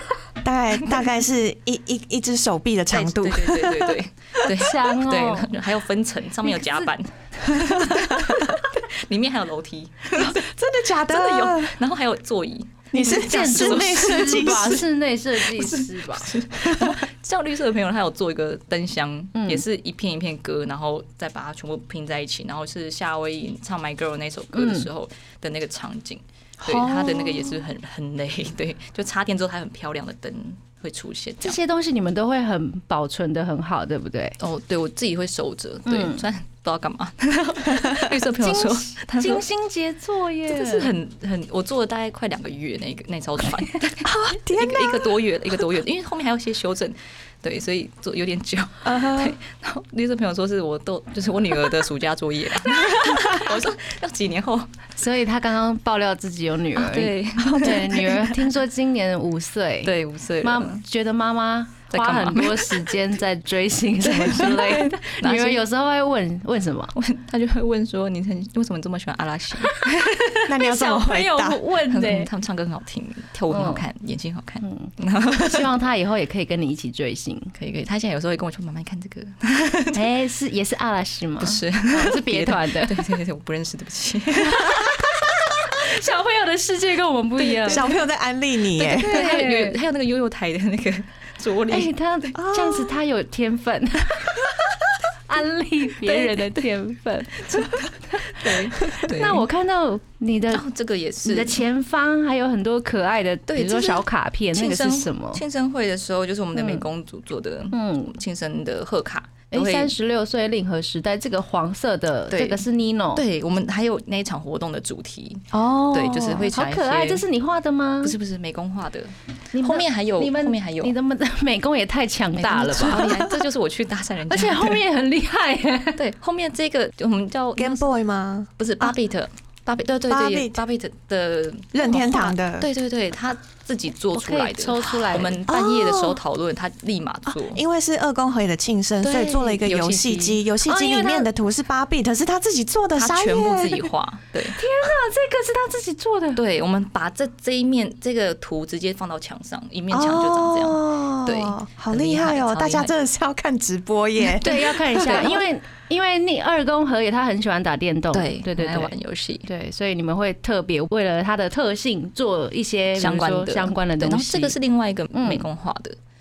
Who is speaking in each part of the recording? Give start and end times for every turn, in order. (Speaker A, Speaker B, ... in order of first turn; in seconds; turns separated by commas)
Speaker A: 0.4-4.0, Speaker B: 2.9-14.8, Speaker C: 4.6-5.5, Speaker C: 6.5-6.9, Speaker A: 7.5-8.6, Speaker A: 10.2-11.8, Speaker A: 12.9-14.8, Speaker C: 13.0-16.3, Speaker B: 15.3-31.6, Speaker C: 19.4-19.6, Speaker C: 24.5-24.9, Speaker A: 26.6-27.6, Speaker C: 31.4-34.4, Speaker B: 34.4-39.5, Speaker C: 35.9-36.2, Speaker C: 38.4-40.9, Speaker B: 40.5-54.7, Speaker A: 44.0-45.2, Speaker A: 48.8-49.4, Speaker C: 55.0-66.9, Speaker B: 56.8-58.4, Speaker B: 59.8-60.8, Speaker B: 61.9-62.9, Speaker B: 64.0-65.6, Speaker B: 66.9-70.1, Speaker C: 69.6-72.3, Speaker A: 70.5-71.6, Speaker B: 71.9-75.7, Speaker C: 73.5-73.8, Speaker C: 74.6-77.5, Speaker B: 77.6-80.0, Speaker C: 79.9-83.1, Speaker B: 81.4-84.9, Speaker C: 84.5-84.9, Speaker C: 85.7-87.8, Speaker B: 87.4-87.9, Speaker A: 87.7-89.1, Speaker B: 88.8-91.9, Speaker C: 88.9-89.8, Speaker C: 91.7-94.6, Speaker A: 92.4-93.0, Speaker C: 95.3-100.6, Speaker B: 96.0-96.6, Speaker B: 97.4-99.5, Speaker B: 100.5-101.6, Speaker C: 101.2-105.4, Speaker B: 103.5-109.9, Speaker C: 106.5-106.8, Speaker C: 107.7-108.1, Speaker C: 109.5-113.2, Speaker B: 112.3-112.6, Speaker B: 113.2-117.2, Speaker A: 115.5-116.5, Speaker C: 116.5-118.2, Speaker B: 118.0-121.0, Speaker C: 119.5-123.1, Speaker B: 122.4-124.8, Speaker A: 123.1-123.3, Speaker C: 124.3-126.0, Speaker B: 126.0-127.9, Speaker A: 127.6-128.9, Speaker B: 128.6-137.6, Speaker A: 130.1-130.6, Speaker A: 131.7-132.7, Speaker C: 134.1-135.4, Speaker A: 135.5-136.2, Speaker A: 137.3-143.8, Speaker B: 139.0-140.4, Speaker C: 140.7-141.3, Speaker B: 142.9-144.6, Speaker C: 144.6-146.4, Speaker B: 146.4-152.9, Speaker A: 149.9-155.4, Speaker C: 154.2-158.9, Speaker B: 158.1-159.5, Speaker C: 159.5-164.6, Speaker B: 163.0-166.0, Speaker C: 165.1-165.4